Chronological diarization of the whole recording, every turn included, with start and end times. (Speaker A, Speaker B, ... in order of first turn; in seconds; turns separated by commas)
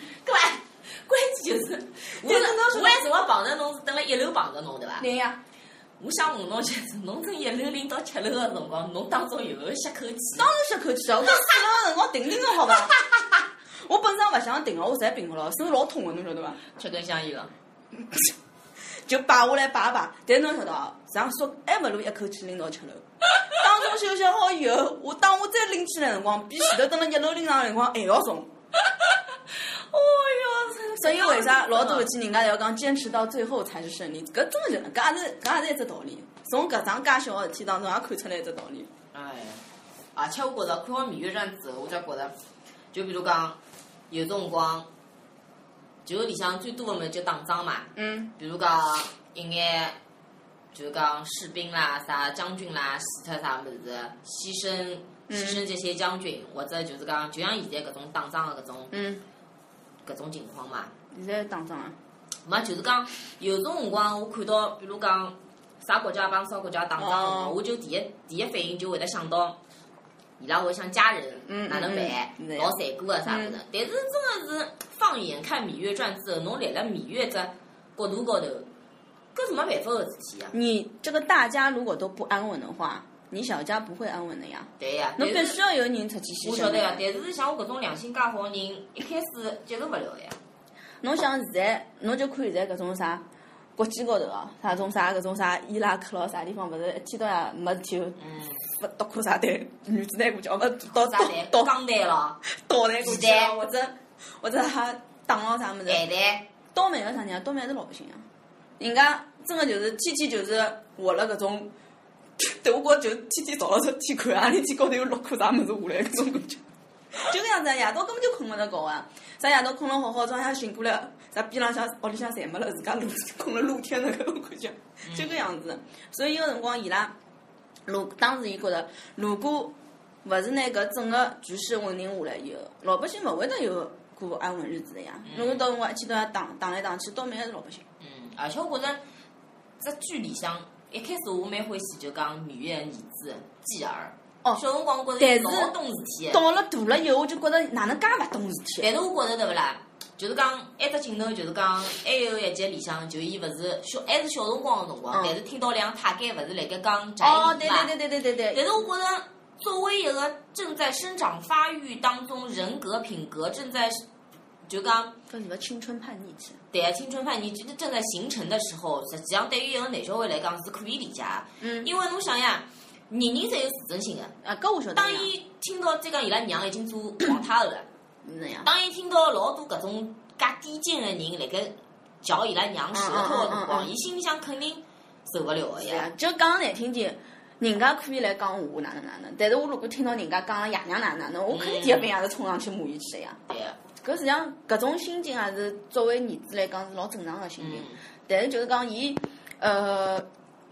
Speaker A: 0.2-5.1, Speaker B: 2.2-3.1, Speaker B: 5.0-5.4, Speaker A: 6.0-10.5, Speaker B: 10.3-12.9, Speaker A: 13.0-13.2, Speaker B: 13.8-16.6, Speaker A: 16.8-17.5, Speaker B: 18.0-18.3, Speaker B: 18.9-28.5, Speaker A: 29.7-32.1, Speaker B: 31.0-38.9, Speaker A: 39.1-39.6, Speaker A: 40.1-42.3, Speaker A: 42.9-43.6, Speaker A: 44.1-44.9, Speaker A: 46.0-50.0, Speaker B: 48.0-48.3, Speaker A: 50.7-58.9, Speaker B: 55.3-55.7, Speaker B: 58.9-59.2, Speaker A: 60.0-60.9, Speaker B: 61.1-62.0, Speaker A: 62.5-69.6, Speaker B: 67.0-67.6, Speaker A: 70.4-78.7, Speaker B: 71.5-73.6, Speaker A: 79.3-80.5, Speaker B: 80.5-87.0, Speaker A: 84.8-85.6, Speaker A: 86.4-90.4, Speaker B: 91.0-93.2, Speaker B: 93.8-101.7, Speaker A: 98.2-98.6, Speaker A: 100.9-102.4, Speaker B: 102.5-106.0, Speaker A: 103.0-103.5, Speaker A: 105.9-106.5, Speaker B: 106.7-108.2, Speaker B: 108.8-111.7, Speaker B: 112.4-116.6, Speaker B: 117.2-127.1, Speaker A: 125.0-125.5, Speaker B: 127.9-137.8, Speaker A: 135.3-135.7, Speaker A: 138.0-139.0, Speaker A: 139.8-146.4, Speaker B: 145.2-145.8, Speaker B: 146.3-148.9, Speaker A: 148.8-157.9, Speaker B: 155.1-155.4, Speaker B: 157.2-158.7, Speaker A: 158.5-164.1, Speaker A: 164.7-165.2, Speaker B: 165.3-166.6, Speaker A: 166.7-174.3, Speaker B: 171.6-171.9, Speaker B: 174.4-175.3, Speaker A: 174.9-177.9, Speaker B: 178.2-178.7, Speaker A: 178.6-186.1, Speaker B: 182.9-183.9, Speaker B: 185.8-193.4, Speaker A: 191.5-192.1, Speaker A: 193.5-193.8, Speaker B: 194.0-200.3, Speaker A: 197.6-198.0